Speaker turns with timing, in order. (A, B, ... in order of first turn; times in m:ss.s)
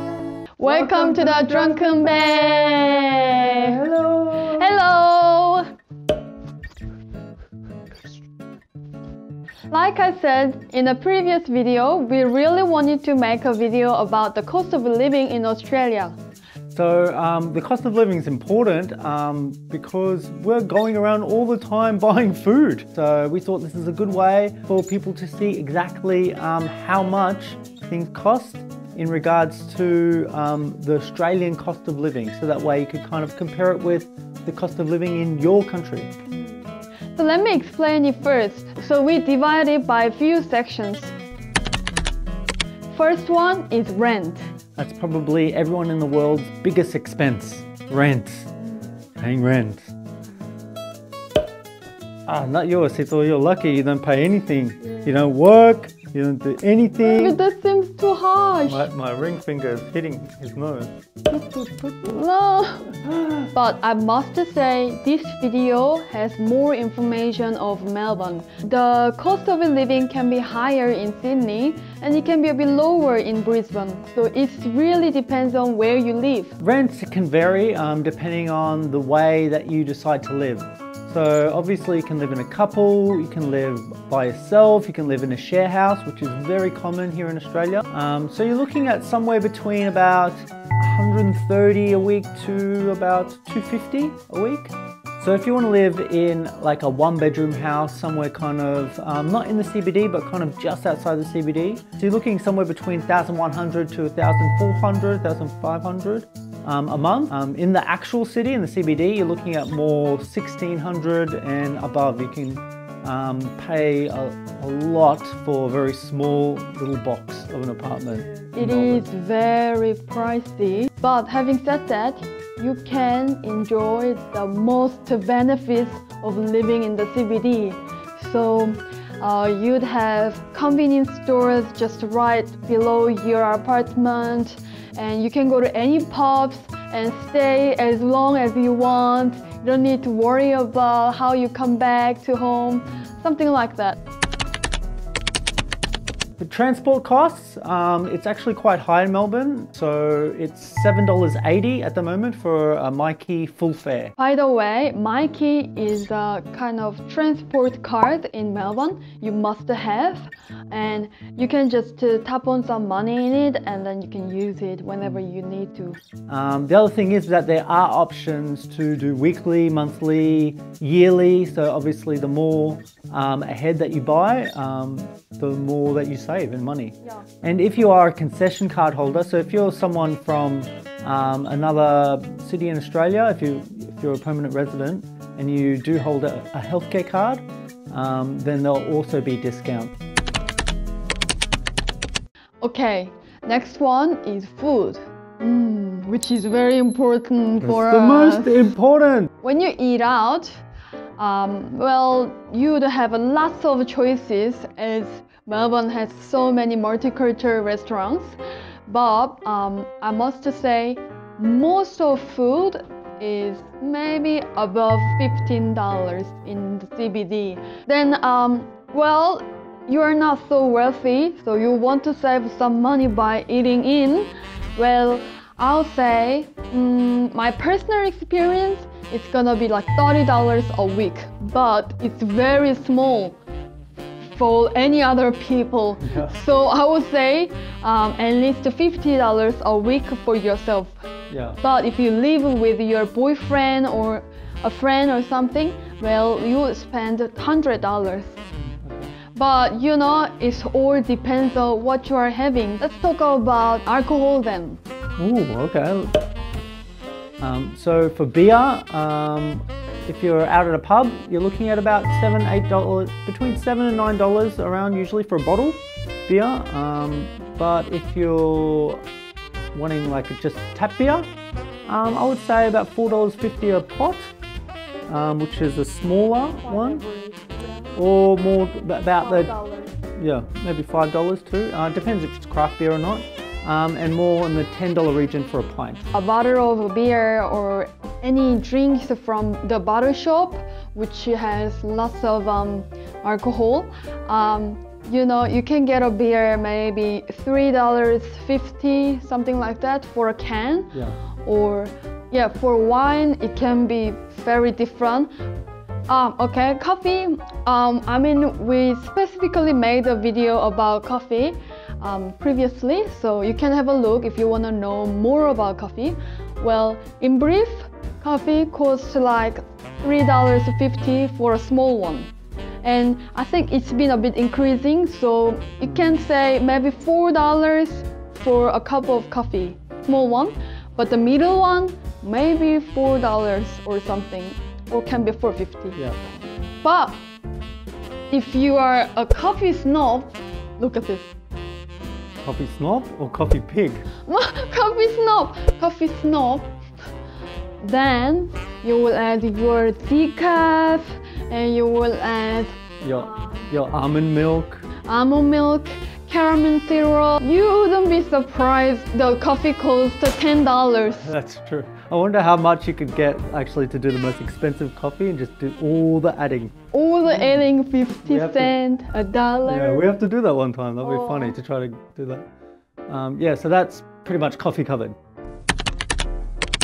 0:00.6-0:03.8 A
0:00.6-0:04.7 B
0:04.4-0:05.6 A
0:09.7-0:16.2 A
0:16.7-0:36.1 B
0:37.2-0:41.1 A
0:42.9-0:44.4 A
0:44.8-0:48.5 B
0:49.2-0:49.9 B
0:52.3-0:57.4 B
0:57.0-0:58.9 A
0:58.6-1:02.1 B
1:02.0-1:03.0 A
1:03.1-1:03.5 B
1:03.5-1:16.6 A
1:16.6-1:59.0 B
1:58.4-2:24.0 A
2:26.4-2:34.1 B
2:34.2-2:46.0 A
2:46.3-3:09.9 B
3:12.6-3:18.7 A
3:17.6-3:19.3 B
3:19.4-3:20.6 A
3:21.2-3:53.4 A
3:54.2-4:01.0 A
3:56.0-3:56.5 B
4:01.3-4:01.6 B
4:01.6-4:08.4 A
4:08.6-4:09.1 B
4:09.3-4:14.8 A
4:15.2-4:16.2 B
4:17.4-4:29.0 B
4:29.7-4:31.3 B
4:31.8-4:34.3 B
4:35.1-4:37.1 B
4:36.6-4:37.9 A
4:37.9-4:39.5 B
4:39.2-4:40.0 A
4:40.1-4:46.0 B
4:46.1-5:05.3 A
5:00.9-5:01.2 B
5:06.1-5:22.3 A
5:22.8-5:36.0 A
5:25.8-5:26.3 B
5:36.8-5:37.2 A
5:38.3-5:41.3 A
5:42.4-5:44.1 B
5:44.2-5:46.7 A
5:47.8-5:53.7 A
5:53.0-5:54.9 B
5:55.0-6:01.3 A
6:01.1-6:06.7 B
6:06.9-6:10.1 A
6:07.3-6:07.6 B
6:08.2-6:08.7 B
6:09.6-6:12.4 B
6:11.0-6:11.6 A
6:13.1-6:15.1 B